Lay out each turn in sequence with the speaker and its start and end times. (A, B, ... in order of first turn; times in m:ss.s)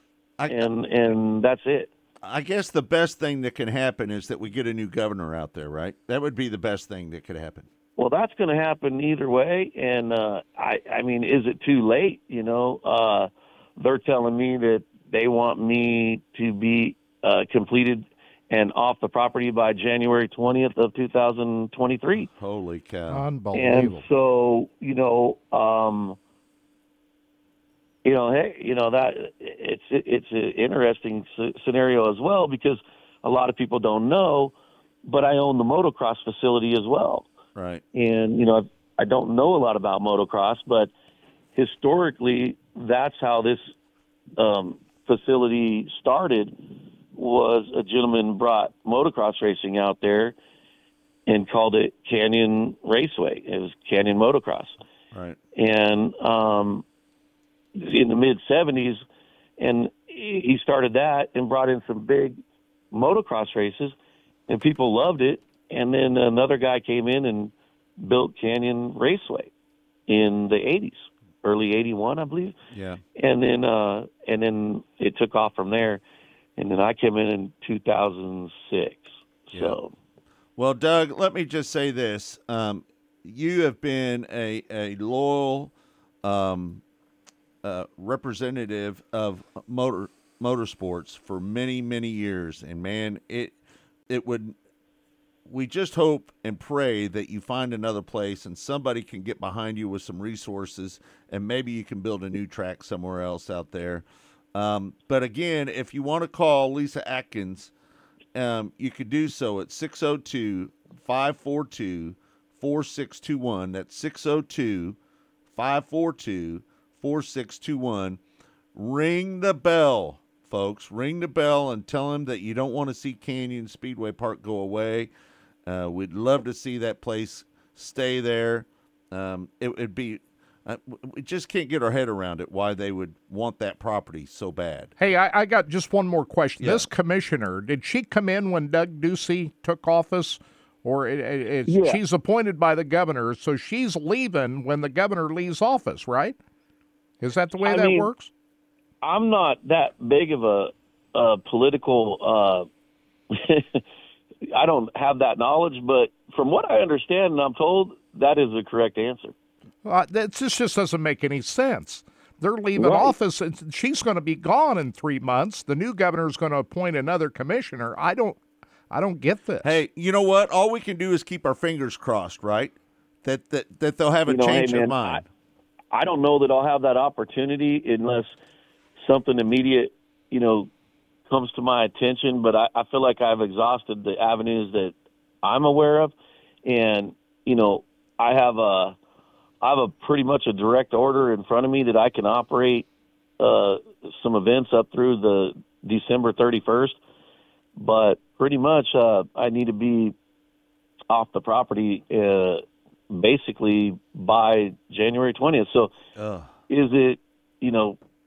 0:00.4-0:00.7 A
0:00.5-0:01.9 B
0:02.2-0:07.7 A
0:08.0-0:22.2 B
0:22.2-0:23.2 A
0:23.1-0:24.1 C
0:23.5-0:26.2 B
0:28.0-0:37.3 B
0:37.6-0:37.8 A
0:37.9-0:40.9 B
0:41.6-0:43.7 B
0:44.4-0:46.6 B
0:47.1-0:50.4 B
0:51.3-0:54.8 B
0:55.1-0:55.4 A
0:55.6-0:56.8 B
0:57.8-0:59.0 B
0:59.6-1:02.4 B
1:02.9-1:04.0 B
1:04.5-1:09.5 B
1:10.1-1:12.6 B
1:12.7-1:13.0 A
1:13.2-1:16.0 B
1:16.6-1:19.9 B
1:20.6-1:26.8 A
1:27.6-1:33.6 A
1:34.1-1:34.6 A
1:35.5-1:47.7 A
1:48.3-1:55.0 A
1:55.5-1:58.2 A
1:58.8-2:05.1 A
2:05.7-2:14.9 A
2:15.0-2:26.4 C
2:16.6-2:16.9 A
2:21.7-2:22.0 B
2:27.2-2:28.3 C
2:27.6-2:28.1 B
2:29.0-2:32.7 B
2:33.3-2:33.8 B
2:34.5-2:39.3 B
2:39.8-2:48.4 C
2:42.8-2:43.2 B
2:48.9-2:49.7 C
2:49.6-2:55.2 A
2:54.3-2:55.2 B
2:55.9-2:58.3 B
2:59.0-3:00.7 B
3:01.3-3:06.1 B
3:06.6-3:09.0 B
3:09.6-3:12.9 B
3:13.4-3:17.0 B
3:17.8-3:20.2 B
3:21.1-3:25.9 B
3:26.2-3:26.6 A
3:26.7-3:28.0 B